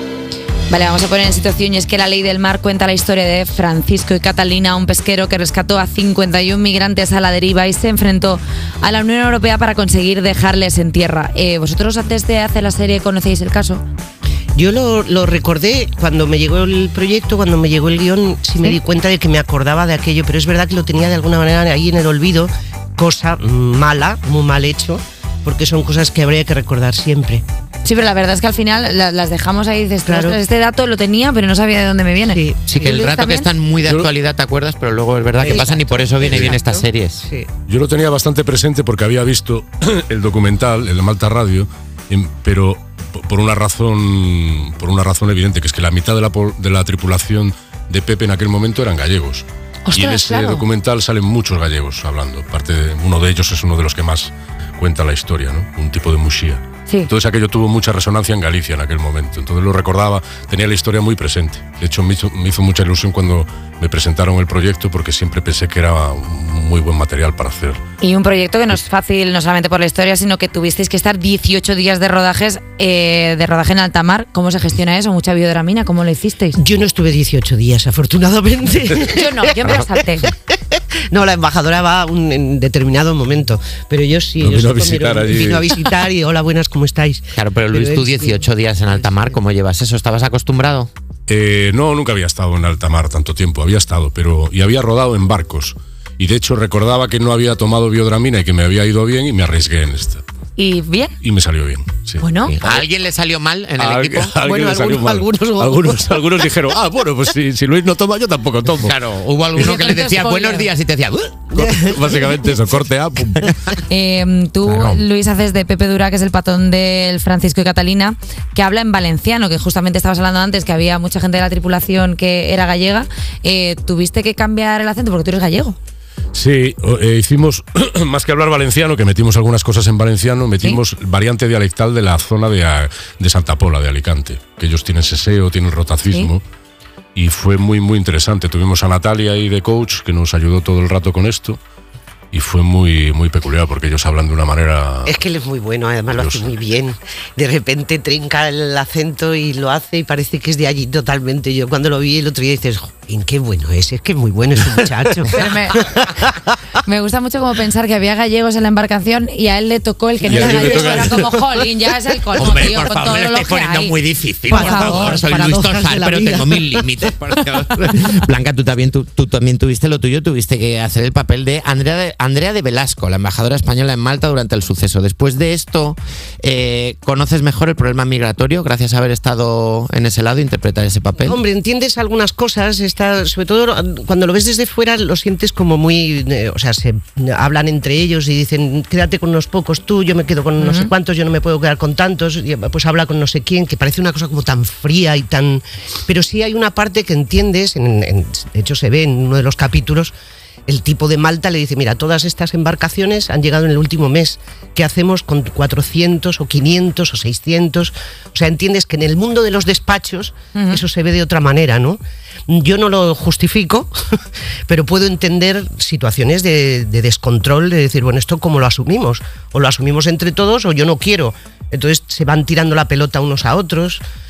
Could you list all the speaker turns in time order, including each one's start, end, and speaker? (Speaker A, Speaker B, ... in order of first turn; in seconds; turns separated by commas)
Speaker A: 0.7-13.8, Speaker B: 14.6-27.4, Speaker A: 27.9-32.4, Speaker B: 30.1-30.4, Speaker B: 32.3-33.1, Speaker C: 32.7-37.3, Speaker A: 33.0-33.5, Speaker B: 35.4-37.5, Speaker D: 37.7-67.8, Speaker A: 49.9-50.6, Speaker A: 68.0-76.6, Speaker B: 76.5-79.8, Speaker A: 79.1-80.3, Speaker B: 81.1-89.3, Speaker D: 84.4-85.8, Speaker C: 87.3-90.9, Speaker D: 91.3-100.2, Speaker A: 100.6-101.2, Speaker D: 101.2-102.3, Speaker C: 102.4-104.6, Speaker D: 103.8-109.0, Speaker B: 105.3-105.8, Speaker C: 108.8-111.6, Speaker D: 109.5-110.5, Speaker D: 111.5-113.5, Speaker A: 113.9-125.8, Speaker D: 114.7-115.0, Speaker D: 126.3-136.4, Speaker D: 137.2-141.6, Speaker D: 142.3-145.2, Speaker B: 145.1-156.3, Speaker D: 146.2-146.5, Speaker A: 155.4-155.8, Speaker A: 156.9-163.9, Speaker D: 160.3-161.5, Speaker C: 162.3-181.4, Speaker B: 164.5-166.9, Speaker A: 164.5-165.1, Speaker B: 181.2-200.1, Speaker A: 190.6-190.9, Speaker B: 200.7-224.0, Speaker A: 210.6-210.8